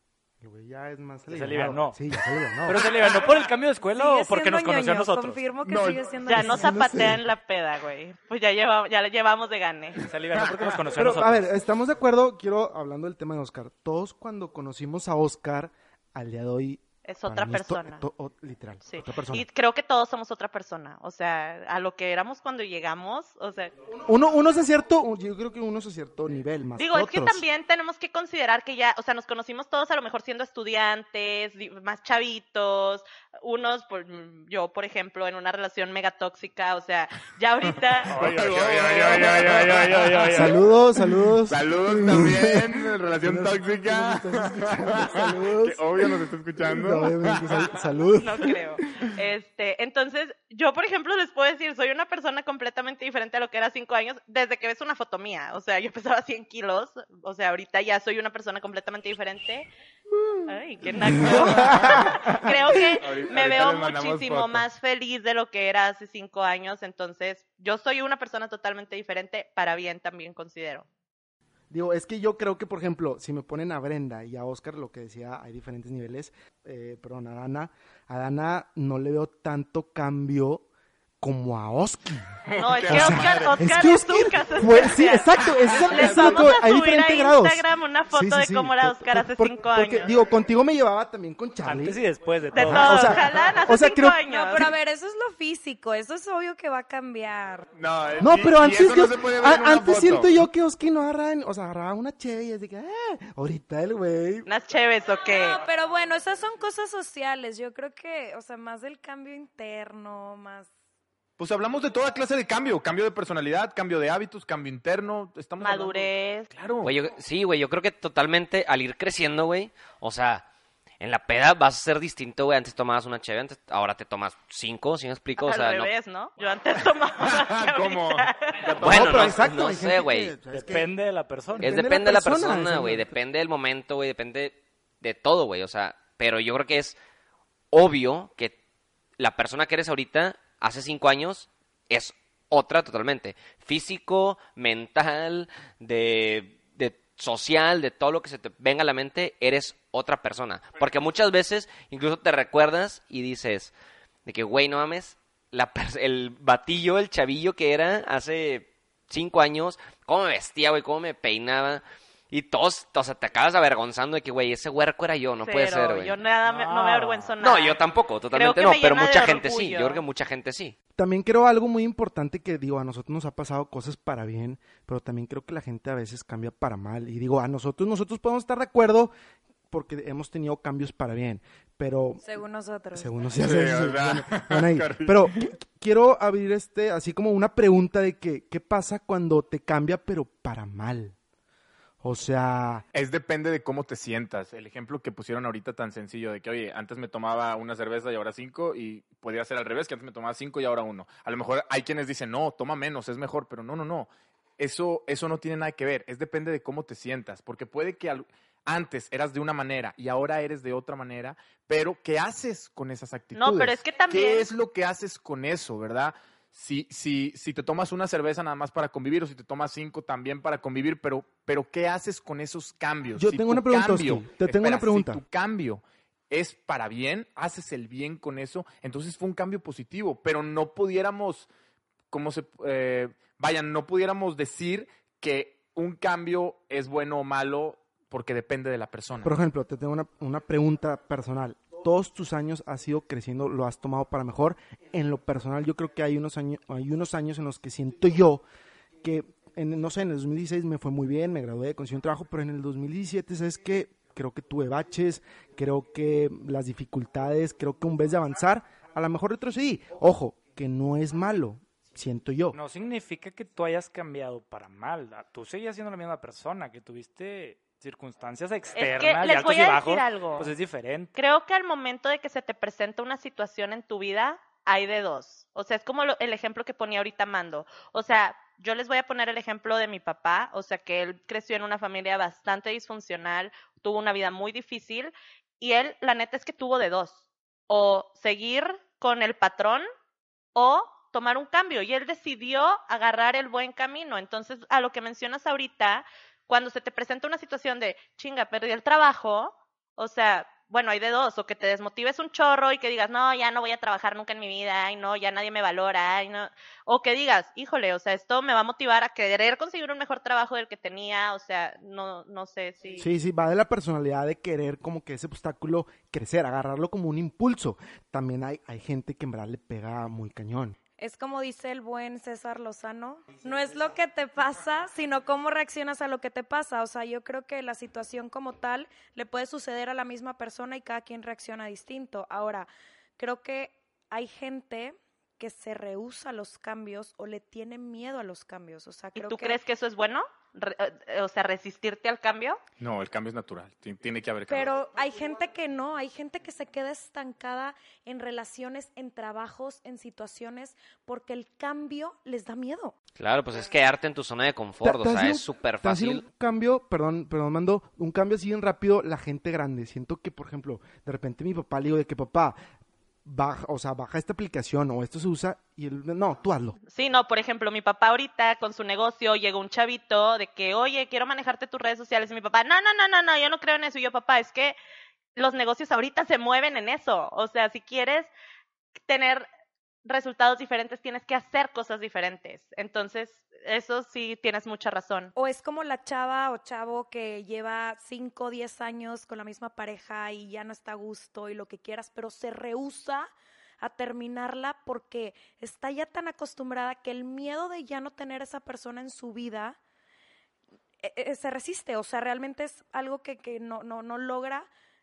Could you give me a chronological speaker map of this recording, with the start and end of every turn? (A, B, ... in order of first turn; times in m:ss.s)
0:00.4-0:02.9 A
0:01.3-0:02.0 B
0:02.7-0:05.4 B
0:02.8-0:03.4 C
0:03.9-0:06.9 D
0:05.7-0:06.1 C
0:06.2-0:10.0 E
0:06.4-0:07.2 A
0:10.0-0:11.5 B
0:11.0-0:19.5 A
0:17.0-0:18.0 E
0:18.9-0:23.7 E
0:24.0-0:27.4 A
0:26.8-0:38.2 E
0:38.1-0:40.6 C
0:38.1-0:40.6 B
0:40.3-0:48.6 A
0:41.5-0:47.7 C
0:48.2-0:59.7 E
1:00.5-1:10.9 E
1:00.9-1:02.8 A
1:01.1-1:04.6 C
1:11.7-1:20.7 A
1:21.2-1:32.0 A
1:22.5-1:23.7 C
1:22.6-1:30.1 E
1:25.5-1:26.6 C
1:31.6-1:33.3 B
1:32.5-1:34.2 A
1:32.5-1:34.7 E
1:34.3-1:37.7 D
1:37.8-1:40.4 C
1:38.2-1:44.5 A
1:44.5-1:45.6 E
1:45.3-1:50.7 D
1:51.4-1:56.9 C
1:55.6-1:56.5 E
1:56.8-2:00.4 F
2:01.0-2:05.9 F
2:05.4-2:08.7 E
2:07.2-2:09.0 C
2:08.7-2:10.3 F
2:08.8-2:10.9 A
2:10.5-2:11.8 B
2:11.5-2:13.2 A
2:11.6-2:17.0 F
2:17.7-2:18.6 F
2:19.2-2:33.7 F
2:34.3-2:46.2 F
2:45.4-2:47.8 E
2:46.4-2:47.4 B
2:47.4-2:50.8 F
2:48.3-2:50.0 E
2:51.0-2:59.1 A
2:59.7-3:02.2 A
3:02.2-3:03.1 D
3:02.9-3:11.2 A
3:03.3-3:05.5 C
3:12.0-3:12.8 A
3:12.9-3:51.5 C
3:33.4-3:34.5 E
3:43.2-3:45.2 A
3:52.1-3:59.4 C
3:59.2-4:08.4 A
4:09.0-4:22.6 A
4:22.5-4:31.1 B
4:28.8-4:30.5 E
4:31.2-4:49.9 E
4:50.6-5:13.0 E
5:13.0-5:20.8 A
5:21.0-5:39.6 D
5:39.2-5:42.6 E
5:42.8-5:44.7 C
5:44.5-5:53.0 D
5:53.2-5:56.2 F
5:54.8-6:02.6 A
6:03.2-6:06.8 A
6:06.9-6:14.8 E
6:15.4-6:18.3 E
6:19.1-6:19.5 E
6:20.0-6:25.3 E
6:25.4-6:33.3 D
6:33.8-6:39.8 D
6:41.0-6:44.7 D